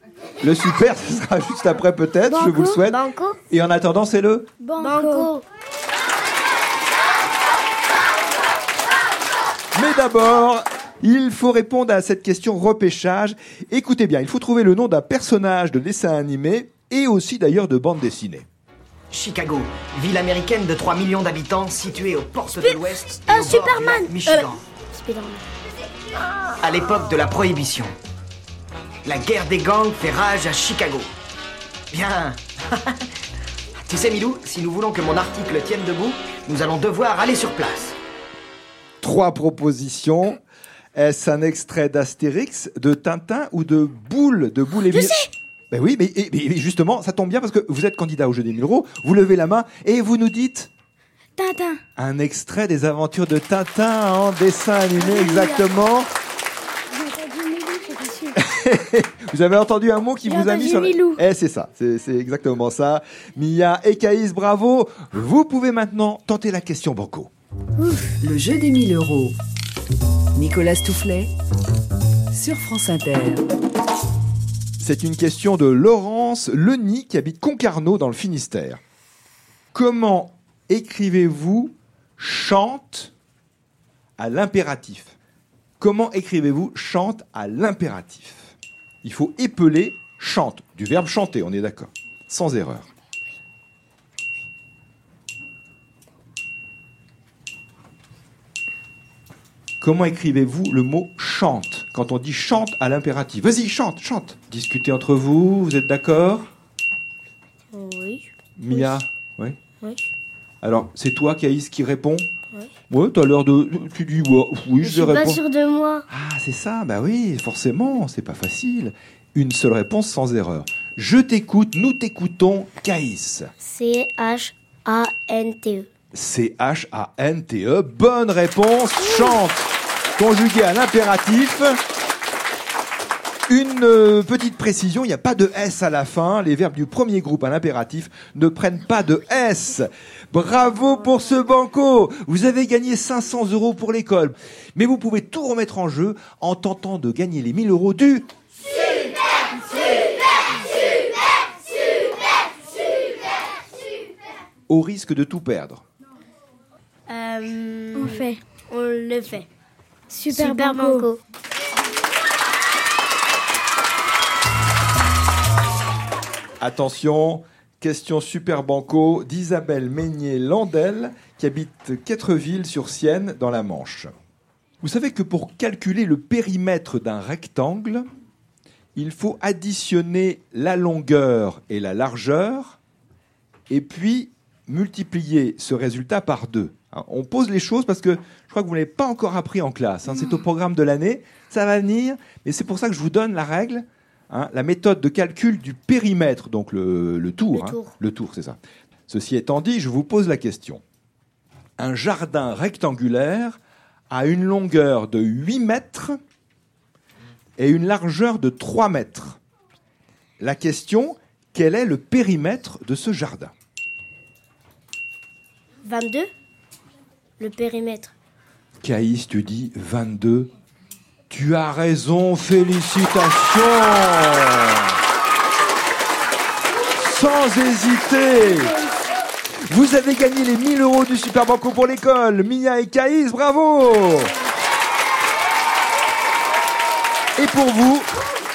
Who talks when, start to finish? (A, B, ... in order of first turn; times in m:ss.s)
0:00.4-0:03.0 A
0:02.3-0:02.8 B
0:02.8-0:03.4 C
0:03.5-0:04.5 A
0:04.6-0:05.3 B
0:04.8-0:05.4 C
0:09.8-0:18.5 A
0:19.1-0:24.6 D
0:22.6-0:25.4 C
0:26.6-0:28.0 D
0:29.0-0:31.1 D
0:31.9-0:32.9 D
0:33.9-0:38.0 D
0:39.0-0:40.4 A
0:41.0-0:50.7 A
0:44.9-0:45.3 B
0:51.4-0:51.8 B
0:52.0-0:56.1 A
0:55.0-0:55.6 B
0:56.9-0:58.4 B
0:58.4-1:07.3 A
1:00.3-1:01.2 B
1:07.8-1:08.2 C
1:08.2-1:09.3 D
1:08.3-1:09.3 E
1:10.4-1:11.3 E
1:12.3-1:13.4 E
1:14.8-1:18.8 A
1:19.7-1:23.1 A
1:24.2-1:25.2 A
1:25.8-1:28.5 A
1:29.0-1:32.8 A
1:39.8-1:46.5 A
1:47.7-1:49.0 C
1:48.6-1:49.6 A
1:50.6-1:52.3 A
1:52.9-1:55.4 A
1:54.8-1:56.1 C
1:56.1-2:03.5 A
2:03.6-2:05.9 C
2:06.1-2:11.8 A
2:13.5-2:28.3 A
2:34.7-2:35.8 A
2:37.1-2:39.5 C
2:38.0-2:38.4 B
2:40.1-2:41.1 B
2:40.3-2:41.2 C
2:46.6-2:54.1 A
2:54.8-2:58.0 A
2:59.0-3:02.8 A
3:03.7-3:20.8 A
3:17.5-3:17.9 C
3:21.8-3:23.6 A
3:24.1-3:26.2 A
3:27.6-3:29.4 A
3:30.4-3:33.5 A
3:35.8-3:36.3 C
3:37.4-3:38.1 C
3:38.8-3:40.5 A
3:41.3-3:45.0 A
3:46.9-3:48.8 A
3:49.7-3:54.3 A
3:57.4-3:58.1 A